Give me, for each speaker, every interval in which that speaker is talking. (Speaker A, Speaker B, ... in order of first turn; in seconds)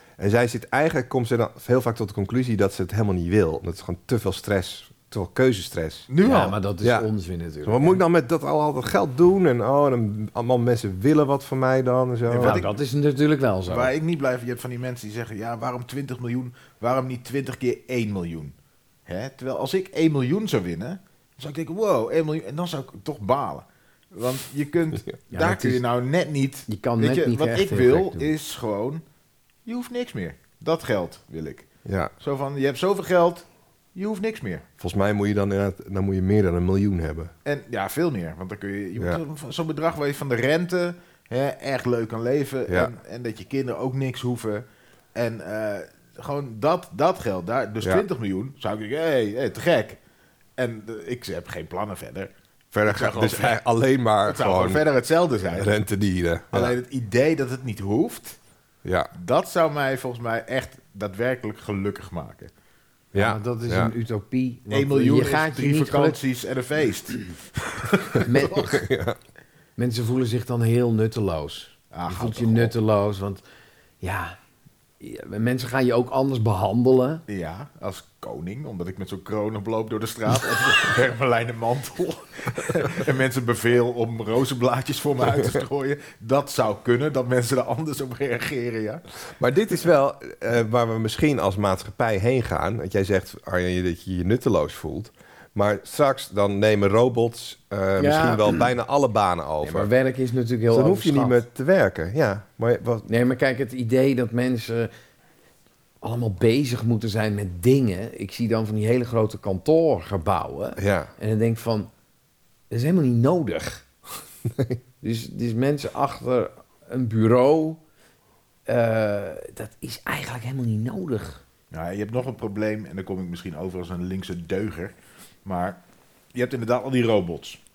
Speaker A: 0.2-6.1, 6.8-7.1, 7.6-12.7, 31.9-32.1, 34.8-37.3, 52.7-54.8, 55.4-56.8, 58.8-59.1, 63.1-63.9, 68.7-69.2, 89.4-99.9, 100.7-103.1, 110.8-111.1, 114.5-114.8
Speaker B: 6.1-6.5, 12.3-12.7, 13.7-18.5, 19.1-29.0, 29.6-31.7, 32.2-34.6, 37.4-50.0, 50.6-52.3, 52.8-53.6, 54.2-55.7, 56.5-58.4, 59.1-62.5, 64.7-68.7, 71.9-72.7, 77.3-89.0, 121.7-124.9, 125.4-125.8, 126.3-127.6
Speaker C: 6.2-8.0, 12.3-13.9, 25.3-25.8, 26.7-28.3, 63.1-66.2, 68.2-68.7, 69.8-73.4, 74.0-74.4, 75.0-77.2, 98.0-98.7, 99.6-101.4, 103.1-104.9, 106.0-111.9, 112.7-113.8, 115.0-117.8, 118.7-121.4